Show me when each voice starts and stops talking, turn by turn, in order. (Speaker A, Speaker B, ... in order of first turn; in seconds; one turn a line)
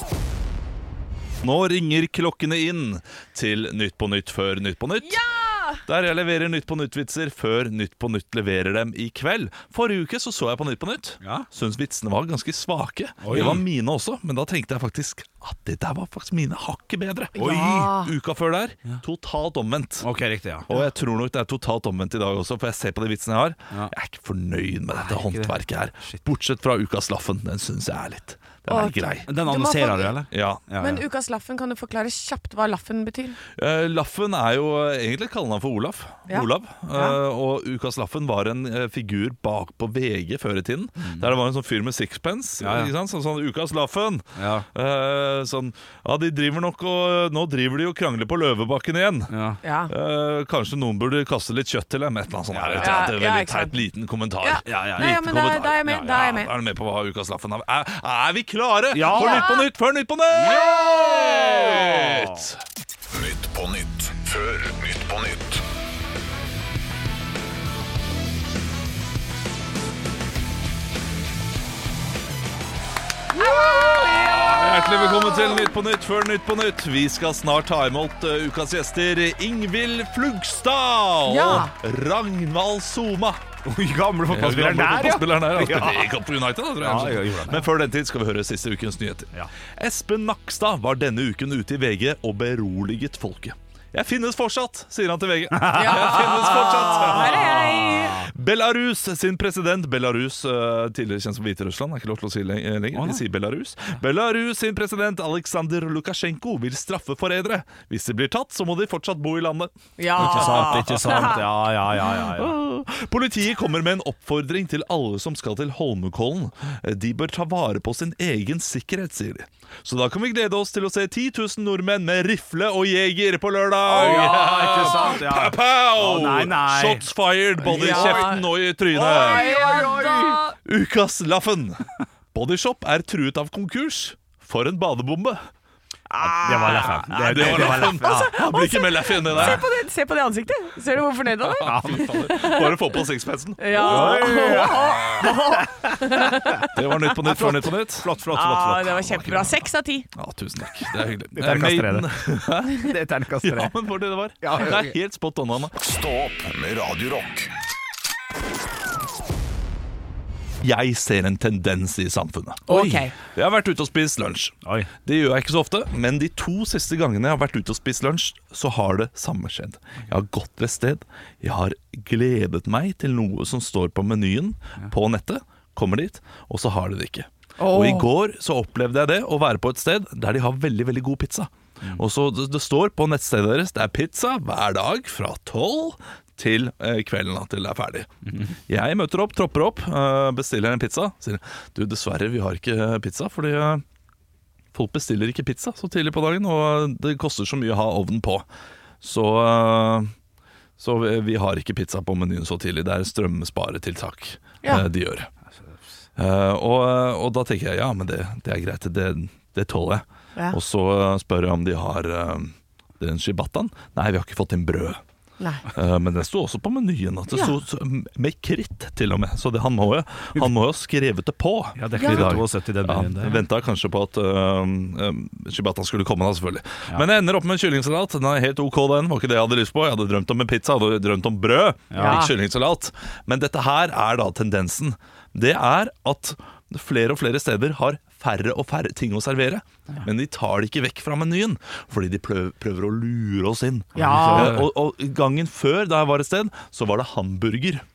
Speaker A: 1.4-5.2
Speaker B: 5.0-5.8
Speaker A: 5.8-20.1
Speaker C: 11.2-11.5
Speaker C: 13.2-13.6
Speaker B: 17.3-18.1
Speaker C: 17.4-17.9
Speaker C: 20.0-20.7
Speaker A: 20.7-29.3
Speaker C: 25.0-25.5
Speaker B: 28.7-30.1
Speaker C: 29.3-31.0
Speaker A: 30.3-30.6
Speaker B: 30.8-33.4
Speaker A: 33.6-49.3
Speaker B: 36.3-37.2
Speaker C: 42.6-42.9
Speaker C: 44.4-44.6
Speaker C: 49.3-49.6
Speaker B: 49.6-49.9
Speaker A: 49.9-62.6
Speaker C: 52.5-53.1
Speaker B: 52.8-53.8
Speaker B: 54.4-56.5
Speaker C: 54.6-55.2
Speaker C: 55.8-56.2
Speaker C: 58.9-59.5
Speaker B: 59.0-59.6
Speaker C: 60.3-62.4
Speaker D: 63.1-65.6
Speaker B: 73.3-75.7
Speaker A: 73.7-83.4
Speaker B: 81.2-81.7
Speaker C: 83.6-86.1
Speaker A: 84.3-111.3
Speaker C: 86.8-87.7
Speaker C: 95.5-96.5
Speaker B: 95.7-98.3
Speaker C: 102.9-103.2
Speaker B: 110.0-111.4
Speaker C: 110.2-112.5
Speaker A: 112.3-129.6
Speaker C: 123.9-127.0
Speaker C: 127.6-128.4
Speaker B: 127.7-130.6
Speaker C: 128.9-130.4
Speaker A: 130.6-135.4
Speaker B: 136.1-142.8
Speaker C: 136.4-138.3
Speaker A: 137.1-139.7
Speaker C: 139.3-139.6
Speaker A: 141.5-145.3
Speaker C: 141.6-142.2
Speaker B: 143.6-146.8
Speaker C: 143.8-145.9
Speaker A: 146.7-148.2
Speaker C: 147.2-149.2
Speaker B: 148.3-150.1
Speaker A: 149.1-149.5
Speaker A: 150.1-155.7
Speaker C: 151.3-152.1
Speaker C: 152.7-153.7
Speaker C: 154.4-155.0
Speaker D: 155.7-157.5
Speaker A: 160.6-162.6
Speaker C: 162.7-163.0
Speaker B: 162.7-163.1
Speaker A: 163.3-188.1
Speaker B: 177.6-178.1
Speaker A: 188.7-193.8
Speaker A: 194.7-198.4
Speaker A: 199.0-200.1
Speaker A: 200.8-205.3
Speaker A: 206.2-215.0
Speaker B: 215.4-215.6
Speaker A: 215.7-247.8
Speaker C: 221.8-223.4
Speaker B: 221.9-222.3
Speaker C: 231.9-232.3
Speaker B: 231.9-232.3
Speaker C: 243.9-244.7
Speaker B: 243.9-244.6